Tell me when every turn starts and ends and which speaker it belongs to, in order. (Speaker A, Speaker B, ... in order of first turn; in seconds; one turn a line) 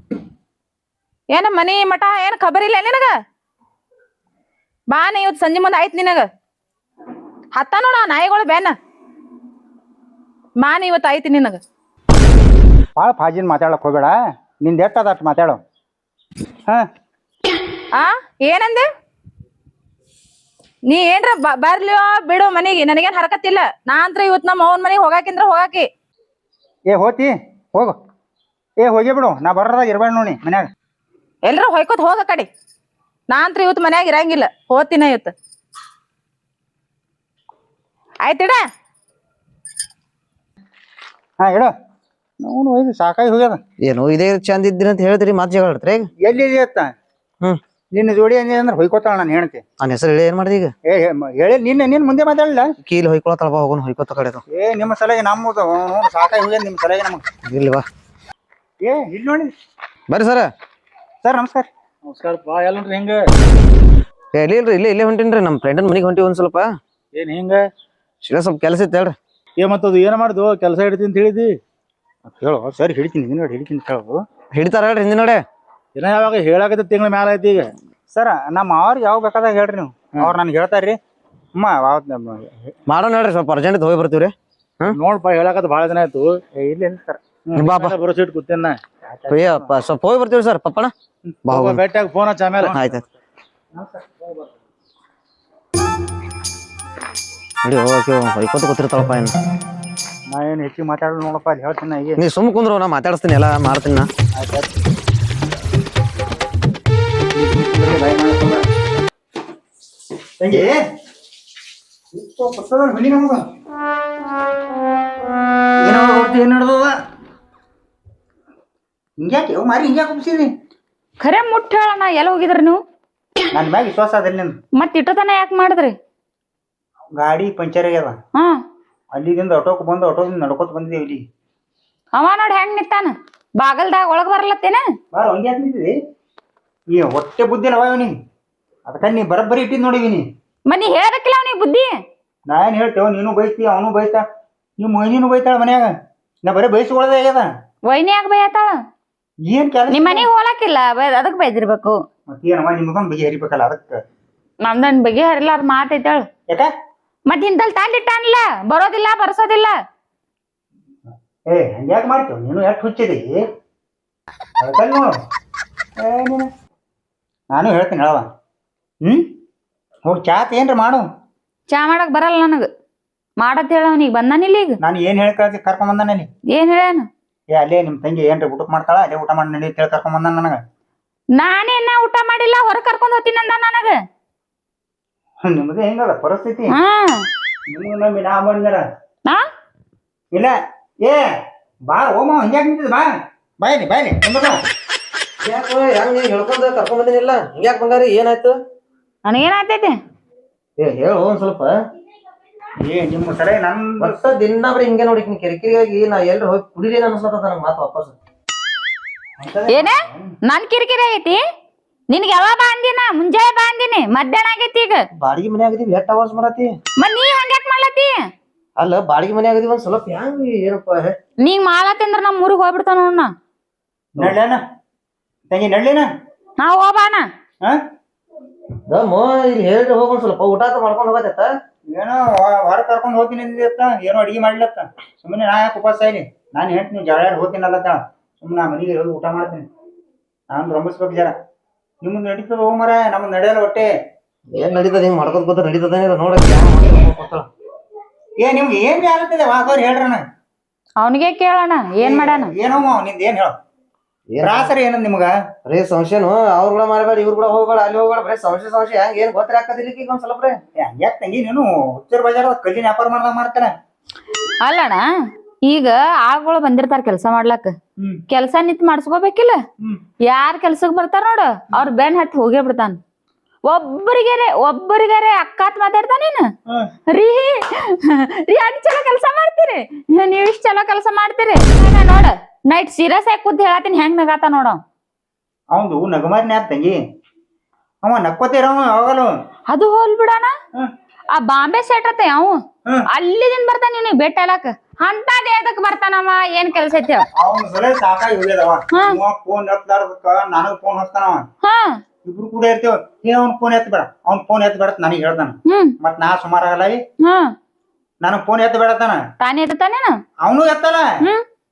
Speaker A: 1.3-3.1
Speaker A: 4.9-6.3
Speaker A: 7.5-8.8
Speaker A: 10.6-11.6
Speaker B: 13.0-15.6
Speaker A: 17.9-18.9
Speaker A: 20.9-25.9
Speaker B: 26.9-28.0
Speaker B: 28.8-30.7
Speaker A: 31.4-32.5
Speaker A: 33.3-35.3
Speaker A: 38.2-38.6
Speaker B: 41.4-41.7
Speaker B: 42.4-43.6
Speaker C: 43.8-46.1
Speaker B: 46.2-46.9
Speaker B: 47.9-49.6
Speaker C: 49.8-50.7
Speaker B: 50.9-52.7
Speaker C: 52.8-54.4
Speaker B: 54.5-57.2
Speaker C: 57.5-57.9
Speaker B: 58.8-59.5
Speaker C: 60.1-60.5
Speaker B: 61.2-61.7
Speaker D: 62.0-63.3
Speaker C: 64.3-66.7
Speaker D: 67.2-67.6
Speaker C: 68.2-69.2
Speaker D: 69.6-71.6
Speaker B: 72.4-74.2
Speaker C: 74.5-75.4
Speaker D: 76.0-77.7
Speaker B: 78.1-81.0
Speaker B: 81.6-82.7
Speaker C: 82.9-85.0
Speaker D: 84.9-86.4
Speaker B: 86.5-87.7
Speaker D: 87.6-88.8
Speaker C: 87.6-88.0
Speaker B: 89.1-89.8
Speaker C: 89.3-90.9
Speaker D: 91.5-92.8
Speaker C: 91.5-91.8
Speaker C: 92.7-93.0
Speaker B: 93.7-94.0
Speaker C: 97.6-99.3
Speaker B: 100.3-102.2
Speaker C: 102.2-104.1
Speaker B: 104.3-104.7
Speaker B: 107.3-108.7
Speaker B: 110.4-110.8
Speaker B: 112.1-113.4
Speaker B: 115.8-116.9
Speaker B: 119.2-120.5
Speaker E: 121.2-122.8
Speaker B: 123.5-124.6
Speaker E: 124.8-126.0
Speaker B: 127.2-128.2
Speaker B: 129.1-131.2
Speaker E: 132.1-134.8
Speaker B: 135.1-135.9
Speaker B: 136.9-138.1
Speaker B: 138.9-140.2
Speaker E: 140.7-141.9
Speaker B: 142.5-144.2
Speaker B: 144.8-145.9
Speaker B: 146.4-147.5
Speaker E: 147.8-148.8
Speaker B: 149.4-150.3
Speaker E: 149.9-152.0
Speaker B: 152.3-154.0
Speaker E: 154.6-156.2
Speaker E: 157.3-159.7
Speaker B: 161.5-163.3
Speaker B: 164.6-165.1
Speaker B: 166.0-166.5
Speaker B: 167.5-168.3
Speaker B: 170.1-171.0
Speaker E: 171.7-172.7
Speaker E: 173.4-174.8
Speaker B: 174.8-176.3
Speaker E: 176.5-177.1
Speaker B: 177.5-180.6
Speaker E: 181.3-184.0
Speaker B: 185.5-186.7
Speaker E: 186.7-187.3
Speaker B: 187.7-188.8
Speaker B: 190.3-191.2
Speaker B: 191.9-193.1
Speaker B: 193.6-194.6
Speaker C: 195.4-198.6
Speaker E: 199.2-200.0
Speaker C: 200.8-201.8
Speaker B: 202.8-204.1
Speaker C: 204.0-208.2
Speaker B: 209.4-210.3
Speaker E: 209.7-211.4
Speaker E: 212.1-215.0
Speaker C: 215.2-216.7
Speaker E: 217.0-218.2
Speaker C: 218.8-221.2
Speaker E: 221.4-223.3
Speaker B: 224.2-224.6
Speaker B: 225.5-226.1
Speaker E: 226.6-227.2
Speaker C: 228.9-231.5
Speaker B: 231.9-239.7
Speaker B: 240.5-241.3
Speaker B: 242.0-243.9
Speaker C: 244.5-247.5
Speaker B: 248.4-250.2
Speaker E: 251.0-252.5
Speaker B: 252.0-253.5
Speaker C: 254.3-254.7
Speaker B: 254.4-255.3
Speaker C: 255.7-260.6
Speaker B: 260.8-263.7
Speaker E: 264.6-265.0
Speaker E: 265.7-267.7
Speaker E: 268.3-269.6
Speaker E: 270.3-273.0
Speaker E: 273.7-276.4
Speaker E: 277.1-284.8
Speaker B: 285.7-287.0
Speaker B: 288.0-289.3
Speaker E: 289.7-290.5
Speaker E: 291.3-297.3
Speaker B: 297.4-301.4
Speaker E: 298.9-299.2
Speaker E: 301.6-302.0
Speaker B: 302.2-307.0
Speaker E: 305.7-305.9
Speaker E: 307.2-307.5
Speaker B: 308.2-309.2
Speaker E: 309.4-310.2
Speaker B: 310.4-311.1